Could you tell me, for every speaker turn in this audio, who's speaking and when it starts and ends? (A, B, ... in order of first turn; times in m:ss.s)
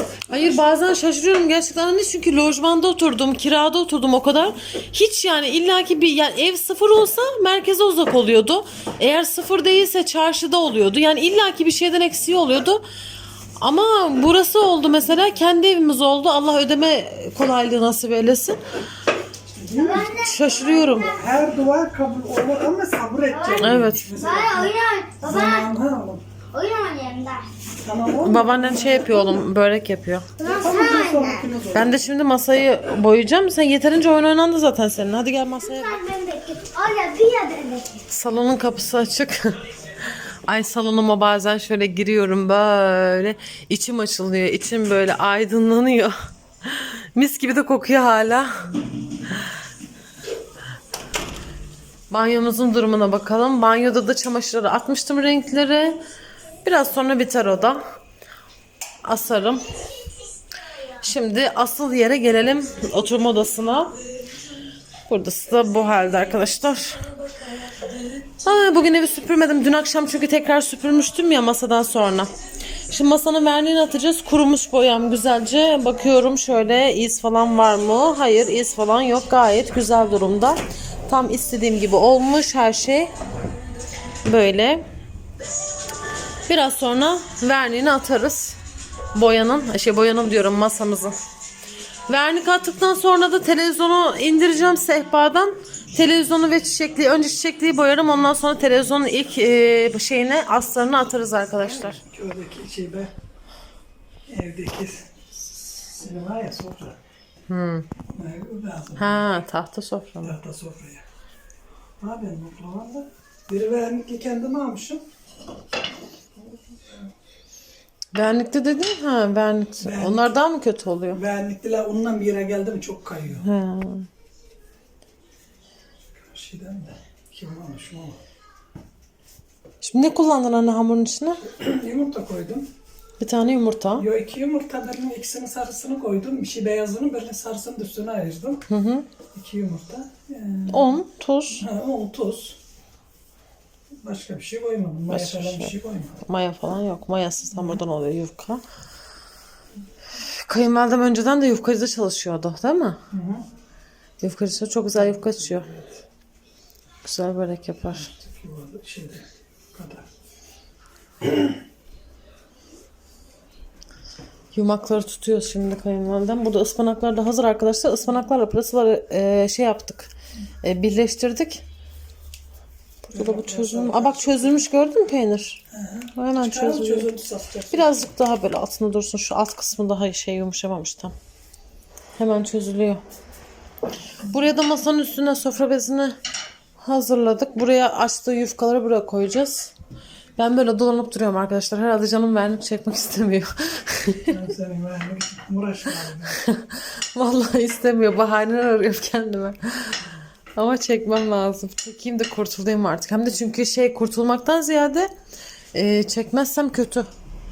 0:00.3-0:12.8 A
0:13.6-0:18.6 A
0:19.5-0:20.2 B
0:19.8-0:21.2 C
0:20.2-0:21.1 A
0:20.9-0:26.2 B
0:23.3-0:25.7 C
0:23.6-0:24.2 A
0:26.5-0:27.5 C
0:27.8-0:29.5 B
0:28.2-0:30.3 A
0:30.4-0:31.5 C
0:30.4-0:32.0 B
0:31.7-0:36.0 A
0:35.6-0:38.0 C
0:38.1-0:48.7 A
0:52.1-0:56.0 A
0:56.6-0:57.8 A
0:59.0-0:59.8 A
1:00.9-1:04.0 A
1:05.1-1:07.2 A
1:08.3-1:12.3 A
1:12.9-1:23.1 A
1:24.2-1:24.8 A
1:26.5-1:28.6 A
1:29.1-1:31.2 A
1:32.1-1:42.0 A
1:42.0-1:43.1 B
1:44.3-1:45.1 B
1:45.7-1:47.0 B
1:47.5-1:47.9 A
1:48.1-1:49.3 B
1:49.0-1:50.4 A
1:50.2-1:51.0 B
1:52.0-1:55.0 B
1:56.4-1:57.1 B
1:58.1-2:01.2 A
1:59.8-2:00.4 B
2:01.1-2:03.5 B
2:03.4-2:04.1 A
2:06.2-2:08.2 B
2:09.8-2:11.5 A
2:11.5-2:12.7 B
2:13.2-2:14.1 A
2:14.0-2:18.6 B
2:18.7-2:19.1 A
2:19.3-2:21.0 B
2:20.7-2:21.6 A
2:21.6-2:22.6 B
2:24.0-2:26.2 B
2:25.1-2:28.6 A
2:30.2-2:33.0 A
2:33.1-2:33.4 B
2:34.2-2:35.8 A
2:37.0-2:38.1 A
2:37.9-2:40.1 B
2:44.5-2:50.1 A
2:50.6-2:51.6 A
2:53.1-2:54.6 B
2:53.1-2:55.6 A
2:55.7-2:58.1 B
2:56.2-2:57.1 A
2:57.7-3:01.2 A
3:02.2-3:03.0 A
3:04.2-3:06.2 A
3:06.8-3:09.7 A
3:10.4-3:14.4 A
3:14.3-3:16.4 B
3:16.4-3:25.1 A
3:25.7-3:27.1 A